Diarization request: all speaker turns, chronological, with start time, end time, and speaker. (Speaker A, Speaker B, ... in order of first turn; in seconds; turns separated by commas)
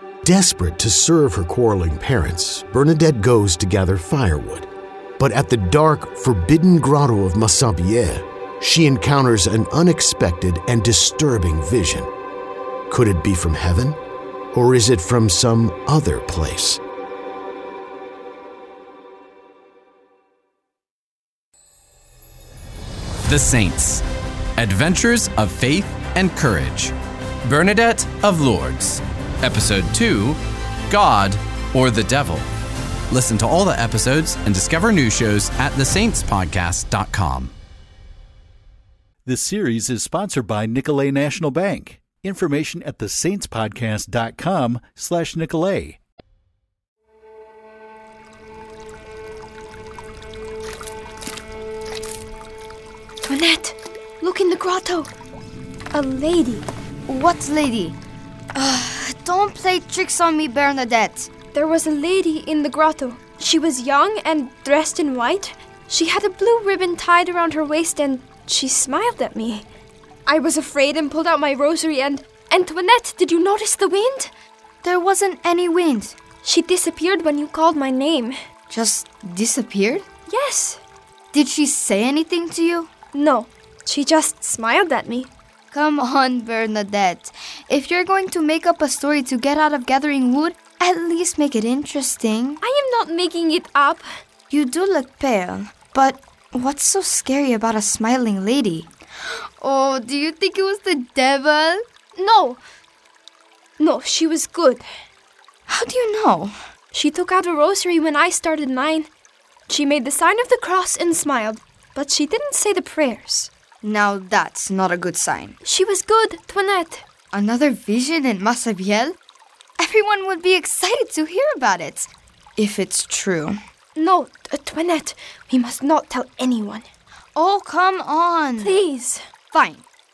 Speaker A: 0.2-4.7, Speaker A: 5.2-12.1, Speaker A: 12.9-14.0, Speaker A: 14.5-16.8, Speaker B: 23.3-24.0, Speaker B: 24.6-32.5, Speaker B: 33.1-37.5, Speaker C: 39.2-46.0, Speaker D: 53.2-55.1, Speaker D: 55.9-56.7, Speaker E: 57.1-58.0, Speaker E: 58.5-61.3, Speaker D: 61.5-69.7, Speaker D: 70.3-74.3, Speaker E: 74.8-76.2, Speaker D: 76.4-78.4, Speaker E: 78.7-80.0, Speaker D: 80.3-80.8, Speaker E: 81.3-82.9, Speaker D: 83.1-85.3, Speaker E: 85.7-92.6, Speaker D: 92.6-94.1, Speaker E: 94.5-98.9, Speaker E: 99.6-101.8, Speaker D: 102.2-102.6, Speaker D: 103.8-104.9, Speaker E: 105.7-106.5, Speaker D: 106.9-109.1, Speaker D: 109.7-113.5, Speaker E: 113.8-115.5, Speaker D: 115.6-117.0, Speaker E: 117.3-119.2, Speaker E: 119.8-123.6, Speaker D: 124.0-126.9, Speaker E: 127.4-128.8, Speaker D: 128.6-129.2, Speaker E: 129.5-129.8